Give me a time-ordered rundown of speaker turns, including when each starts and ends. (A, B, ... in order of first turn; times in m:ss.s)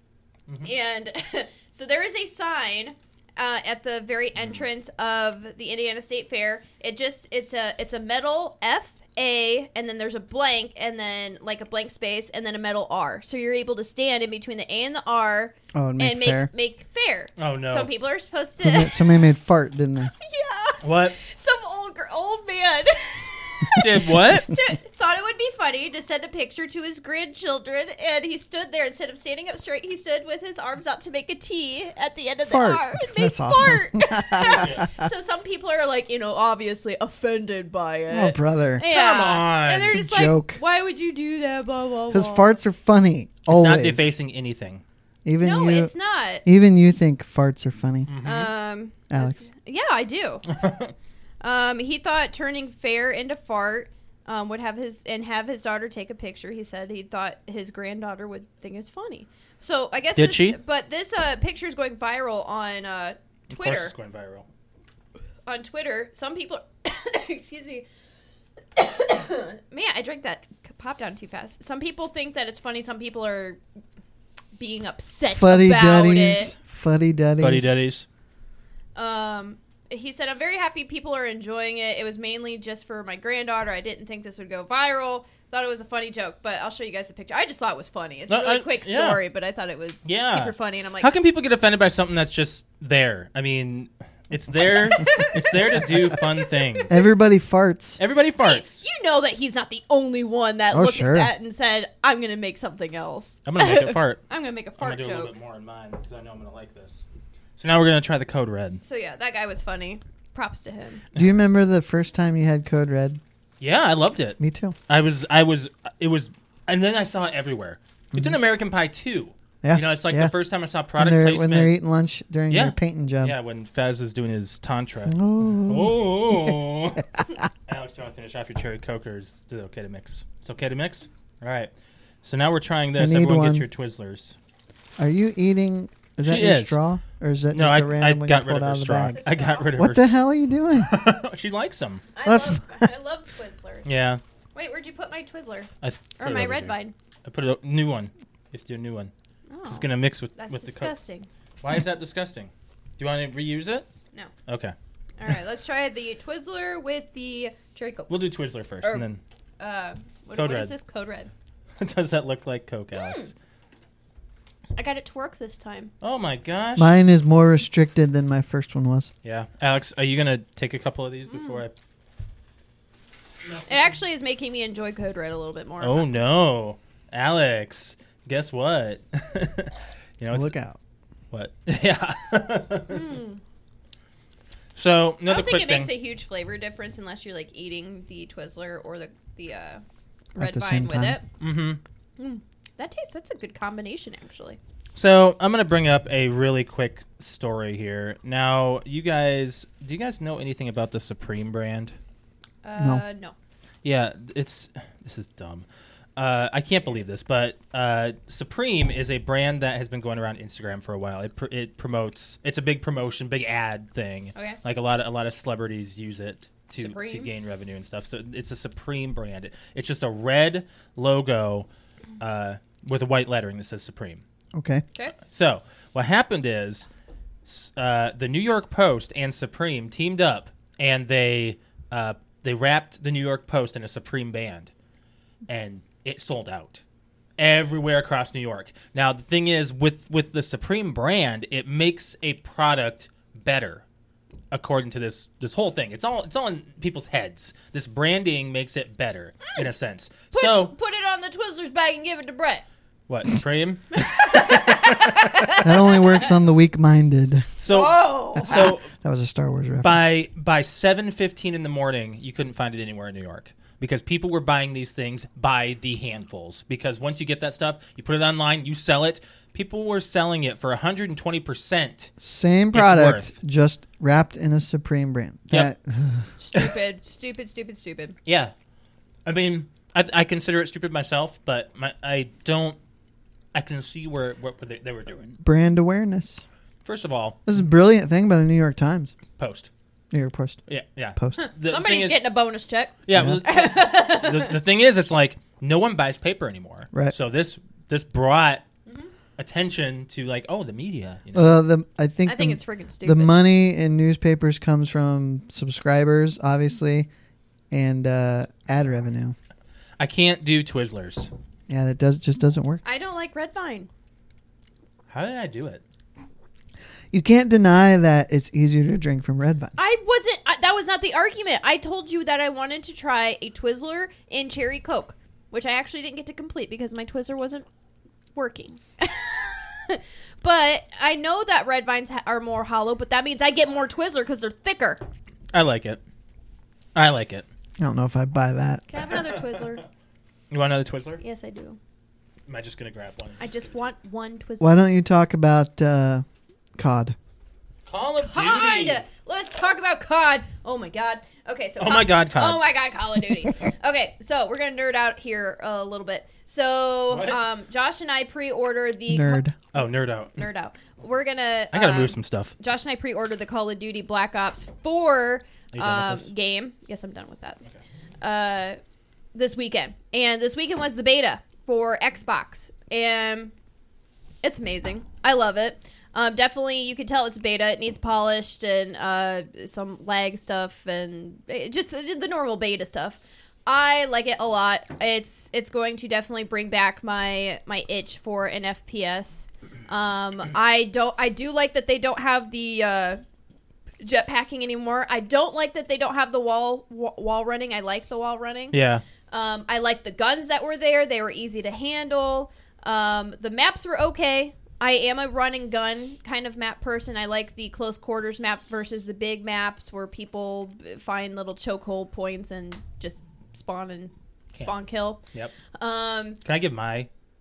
0:00.5-0:00.7 A
0:00.6-0:19.2 B
0:15.7-0:16.5 C
0:17.4-0:17.9 A
0:18.6-0:20.1 C
0:20.2-0:42.6 B
0:20.8-0:21.2 A
0:23.8-0:24.5 A
0:32.5-0:35.1 C
0:34.4-0:34.8 A
0:38.1-0:38.9 C
0:38.8-0:40.0 A
0:39.9-0:40.6 C
0:42.1-0:44.1 C
0:43.5-0:44.8 A
0:45.2-0:45.9 C
0:45.4-0:46.4 B
0:46.4-0:48.1 C
0:48.1-0:48.5 A
0:48.2-0:50.5 B
0:49.1-0:49.4 C
0:50.5-0:50.9 A
0:51.4-1:03.9 B
1:00.2-1:00.6 A
1:03.5-1:04.5 A
1:05.4-1:07.8 B
1:08.8-1:13.6 B
1:14.6-1:16.5 B
1:15.3-1:17.7 C
1:17.4-1:18.0 A
1:19.0-1:31.1 B
1:28.3-1:29.2 A
1:30.0-1:36.9 A
1:34.8-1:36.9 B
1:36.9-1:38.0 C
1:38.0-1:38.8 A
1:38.4-1:45.3 B
1:40.7-1:41.3 C
1:43.4-1:44.2 A
1:44.8-1:47.0 A
1:47.6-1:48.8 A
1:48.8-1:51.0 B
1:51.1-1:53.2 C
1:53.6-2:01.7 A
1:54.4-1:54.7 C
1:59.6-2:00.3 C
2:01.0-2:03.4 C
2:02.5-2:07.2 A
2:05.1-2:06.6 C
2:07.7-2:11.7 A
2:12.2-2:14.3 A
2:13.0-2:13.6 C
2:15.0-2:19.2 C
2:16.2-2:16.8 A
2:17.5-2:20.0 A
2:19.1-2:19.7 B
2:19.8-2:20.9 C
2:20.7-2:22.0 A
2:22.1-2:23.9 B
2:22.2-2:22.9 C
2:23.8-2:24.2 A
2:24.5-2:26.9 B
2:25.8-2:29.1 A
2:29.5-2:29.8 B
2:29.7-2:30.9 A
2:30.4-2:31.3 B
2:31.6-2:33.9 A
2:34.5-2:34.7 A
2:35.2-2:38.2 B
2:38.1-2:39.2 A
2:39.6-2:41.3 B
2:40.3-2:40.7 A
2:41.8-2:43.3 A
2:42.9-2:43.3 B
2:44.8-2:45.9 B
2:46.0-2:46.9 A
2:46.8-2:49.1 C
2:49.2-2:51.7 A
2:51.3-2:51.6 B
2:53.6-2:56.0 B
2:55.8-3:00.5 A
3:00.3-3:00.8 C
3:01.3-3:03.1 A
3:02.9-3:03.4 B
3:04.7-3:05.9 A
3:05.3-3:09.8 B
3:10.4-3:11.2 C
3:10.4-3:11.2 B
3:11.4-3:11.8 A
3:12.2-3:14.6 B
3:15.0-3:21.9 A
3:22.6-3:23.3 B
3:23.8-3:41.7 A
3:36.8-3:37.3 B
3:42.2-3:44.2 A
3:44.5-3:44.8 C
3:45.2-3:46.9 A
3:47.4-3:54.7 A
3:55.5-3:56.8 A
3:57.4-4:03.8 A
4:04.5-4:10.7 A
4:10.3-4:12.6 B
4:13.1-4:15.5 A
4:14.0-4:16.2 B
4:15.6-4:17.5 C
4:17.6-4:18.9 A
4:17.7-4:18.7 B
4:18.4-4:20.1 C
4:19.8-4:32.1 A
4:32.2-4:36.3 C
4:32.7-4:33.3 A
4:36.4-4:38.2 B
4:38.2-4:38.5 A
4:39.2-4:42.8 A
4:43.5-4:45.4 A
4:45.4-4:46.4 C
4:46.8-4:47.4 A
4:47.5-4:49.1 C
4:49.4-4:49.7 A
4:50.1-4:50.6 C
4:50.7-4:52.2 A
4:51.2-4:51.4 C
4:51.4-4:54.5 B
4:53.0-4:58.6 A
4:53.1-4:53.4 C
4:59.4-5:01.6 A
5:01.3-5:07.1 C
5:02.2-5:03.3 B
5:07.7-5:09.3 C
5:10.0-5:11.3 A
5:11.7-5:12.8 C
5:12.8-5:13.9 B
5:15.1-5:15.8 A
5:17.1-5:19.7 C
5:19.8-5:27.6 B
5:28.3-5:35.0 B
5:35.5-5:36.0 A
5:36.9-5:37.4 A
5:37.8-5:38.8 C
5:38.9-5:39.8 B
5:40.5-5:41.2 A
5:41.2-5:41.8 B
5:42.5-5:43.5 A
5:43.4-5:44.8 B
5:44.6-5:46.2 C
5:46.8-5:47.2 C
5:47.8-5:49.0 A
5:48.2-5:59.4 B
5:51.8-5:52.6 A
5:57.1-5:57.4 A
5:59.1-5:59.6 C
5:59.7-6:00.4 A
6:00.4-6:07.6 B
6:01.7-6:02.5 A
6:05.7-6:06.3 A
6:08.2-6:08.8 B
6:09.3-6:13.5 B
6:14.4-6:33.2 B
6:34.0-6:38.8 B
6:38.7-6:39.0 A
6:39.3-6:55.2 B
6:55.8-6:56.4 B
6:56.4-6:57.1 A